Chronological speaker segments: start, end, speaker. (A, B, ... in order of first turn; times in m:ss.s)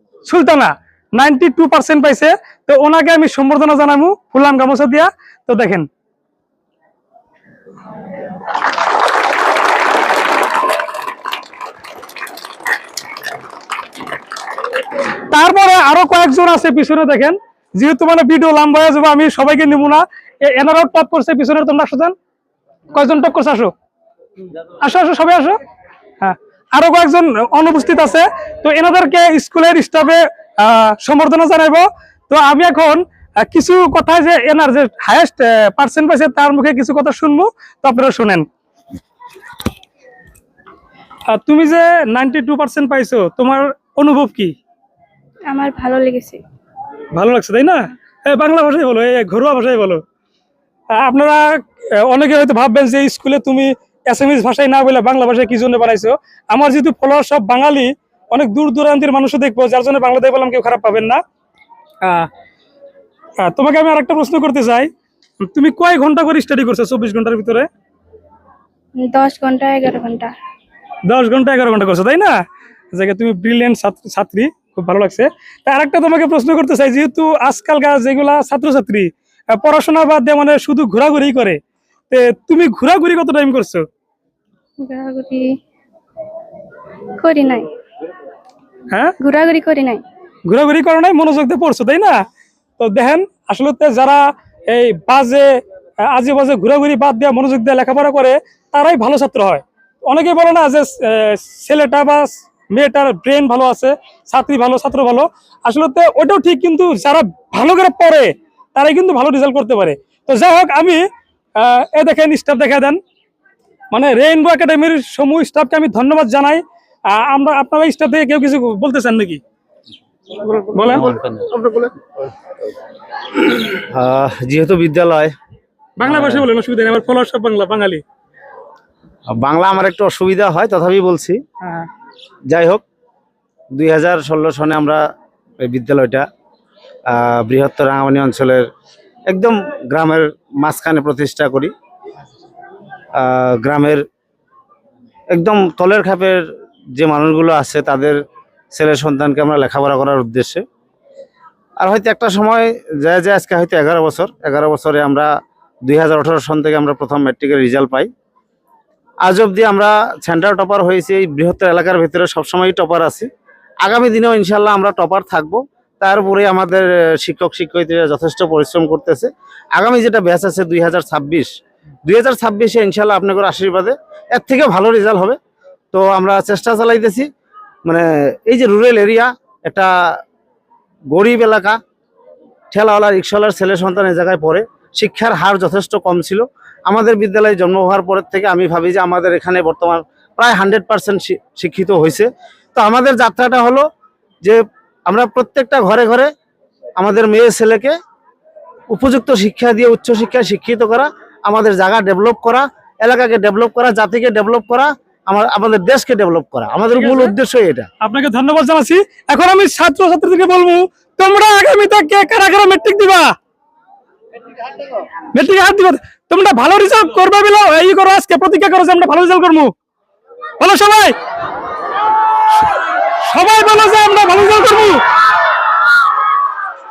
0:00.2-0:05.9 A
0:15.3-0:22.1 A
0:22.9-0:23.7 A
0:24.8-0:25.6 A
0:26.2-0:38.5 A
0:41.3-0:44.6 A
0:45.5-0:46.4 B
0:47.1-0:50.0 A
0:50.9-1:01.2 A
1:02.0-1:02.3 A
1:03.4-1:04.9 A
1:05.4-1:07.7 A
1:09.0-1:10.3 B
1:11.1-1:12.4 A
1:12.9-1:21.6 A
1:22.1-1:23.8 A
1:24.8-1:25.6 B
1:27.2-1:27.7 B
1:28.9-1:29.2 A
1:29.2-1:30.0 B
1:30.5-1:32.2 A
1:32.8-1:35.5 A
1:36.0-1:51.0 A
1:51.6-1:53.0 A
1:53.9-1:59.4 A
2:00.4-2:01.9 C
2:00.7-2:01.1 A
2:03.5-2:05.3 C
2:06.0-2:08.0 A
2:06.0-2:06.5 C
2:09.3-2:11.4 C
2:11.6-2:11.9 A
2:12.5-2:12.8 C
2:13.7-2:15.0 C
2:15.6-2:16.3 C
2:17.1-2:18.7 C
2:19.3-2:21.7 C
2:23.2-2:24.0 C
2:25.3-2:28.2 C
2:28.7-2:30.6 C
2:31.8-2:35.3 C
2:35.8-2:38.1 C
2:39.2-2:43.3 C
2:43.8-2:51.5 C
2:52.0-2:55.4 C
2:55.9-2:57.3 C
2:57.9-3:00.2 C
3:01.1-3:01.8 C
3:02.7-3:13.9 C
3:14.4-3:16.3 C
3:17.0-3:18.0 C
3:18.9-3:27.9 C
3:27.0-3:27.3 A
3:28.0-3:33.3 A
3:35.3-3:39.7 A
3:40.6-3:41.2 A
3:43.2-3:45.0 A